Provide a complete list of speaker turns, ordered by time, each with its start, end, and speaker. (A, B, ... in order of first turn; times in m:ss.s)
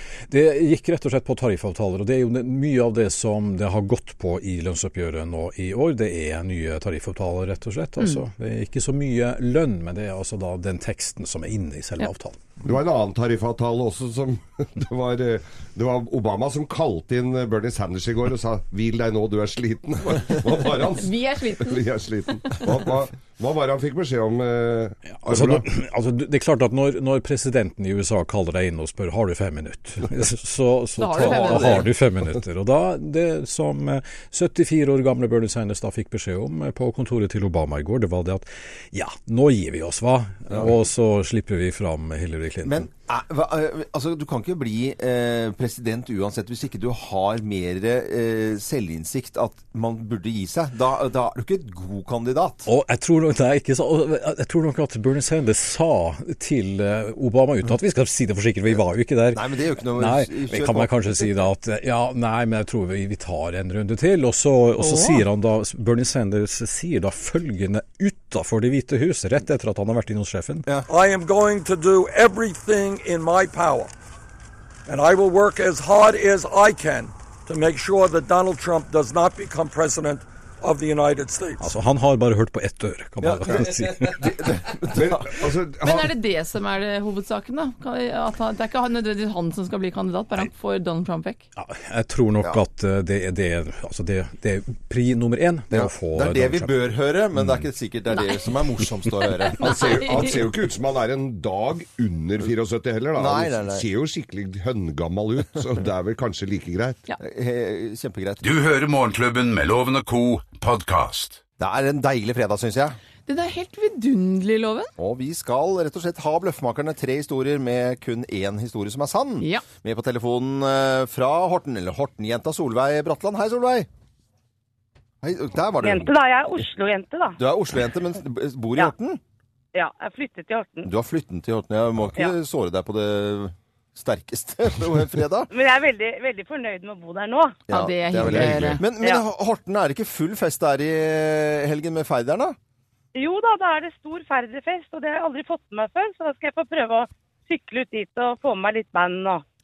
0:00.3-0:12.5 A
0:12.6-0:25.6 B
0:21.0-0:21.8 C
0:25.1-0:42.9 A
0:31.0-0:31.9 C
0:31.2-0:31.9 D
0:42.7-0:52.7 D
0:52.7-0:59.4 A
0:59.3-1:01.3 D
1:00.0-1:10.8 A
1:04.8-1:05.2 C
1:10.9-1:13.9 E
1:14.9-1:21.6 E
1:21.6-1:24.6 A
1:23.2-1:25.4 D
1:24.9-1:26.1 B
1:25.8-1:31.4 C
1:31.6-1:36.8 A
1:35.7-1:40.3 D
1:39.6-1:47.0 B
1:39.6-1:40.3 C
1:43.2-1:43.9 D
1:47.2-1:48.4 D
1:48.4-1:51.4 F
1:51.6-1:53.0 D
1:53.3-1:54.9 C
1:55.0-2:03.9 D
1:59.4-1:59.6 C
2:05.2-2:06.1 D
2:05.8-2:07.4 G
2:07.4-2:09.2 D
2:09.7-2:10.9 G
2:10.8-2:15.5 D
2:15.5-2:17.6 G
2:17.7-2:22.6 D
2:17.7-2:18.8 C
2:18.2-2:18.8 B
2:23.2-2:29.4 G